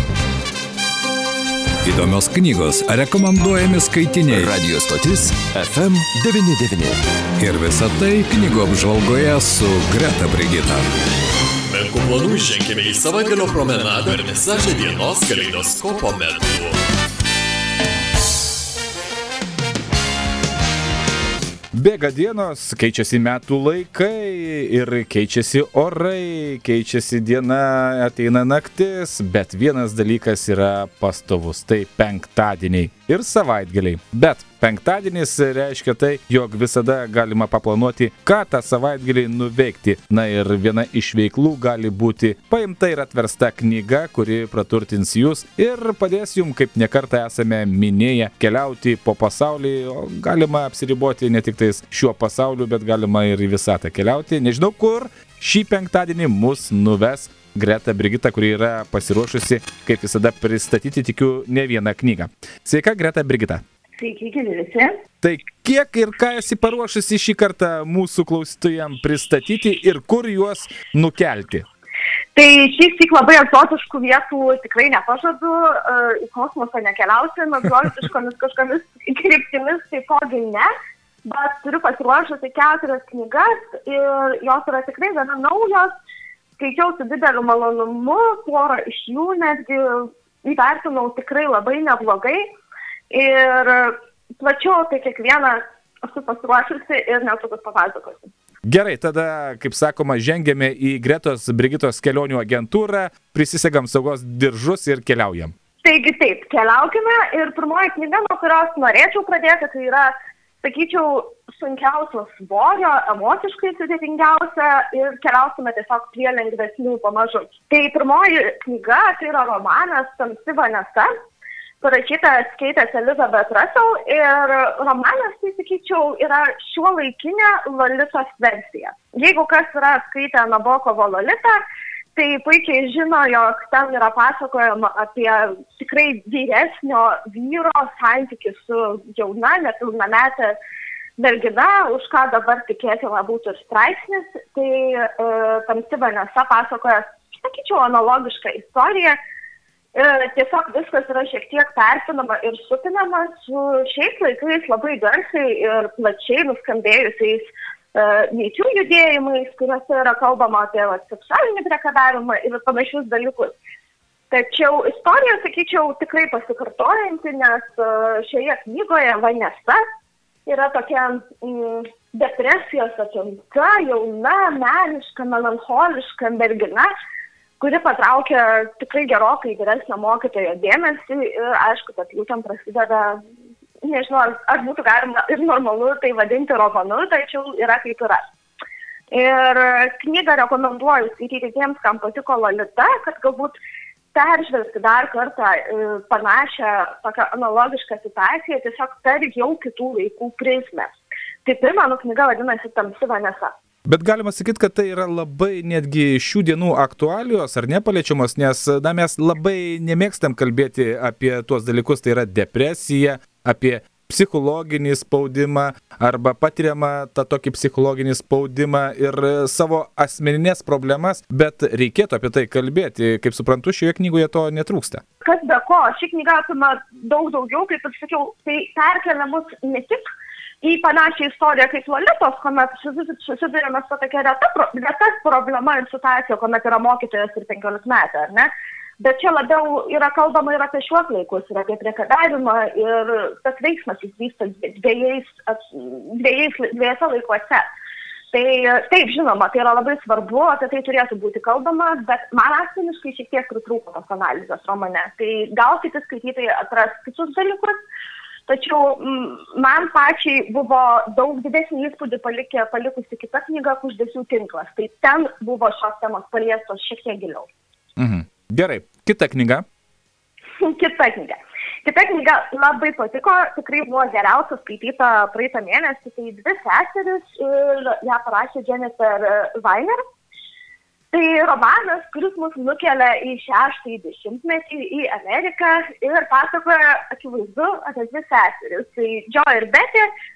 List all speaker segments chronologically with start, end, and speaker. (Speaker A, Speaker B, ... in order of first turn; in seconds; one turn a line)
Speaker A: 1.8-4.5
Speaker B: 4.4-7.0
Speaker A: 6.1-6.5
Speaker A: 7.4-10.9
Speaker C: 11.7-16.8
Speaker A: 13.0-14.1
Speaker D: 21.7-63.6
Speaker E: 64.0-64.9
Speaker D: 65.2-71.6
Speaker E: 72.3-80.7
Speaker E: 81.2-85.9
Speaker E: 86.6-92.4
Speaker E: 93.1-98.3
Speaker D: 98.7-105.5
Speaker E: 105.8-110.1
Speaker E: 110.6-121.1
Speaker E: 121.8-131.6
Speaker E: 132.2-140.6
Speaker E: 141.2-149.2
Speaker E: 149.9-163.5
Speaker E: 164.3-169.8
Speaker E: 170.4-176.9
Speaker E: 177.6-183.2
Speaker E: 183.8-188.2
Speaker E: 189.1-193.6
Speaker E: 194.1-200.9
Speaker E: 201.4-203.5
Speaker D: 203.9-225.0
Speaker E: 225.2-230.0
Speaker E: 230.6-238.5
Speaker E: 239.0-247.7
Speaker E: 248.3-257.8
Speaker E: 258.5-267.5
Speaker D: 268.0-269.6
Speaker E: 270.6-280.0
Speaker E: 281.1-290.1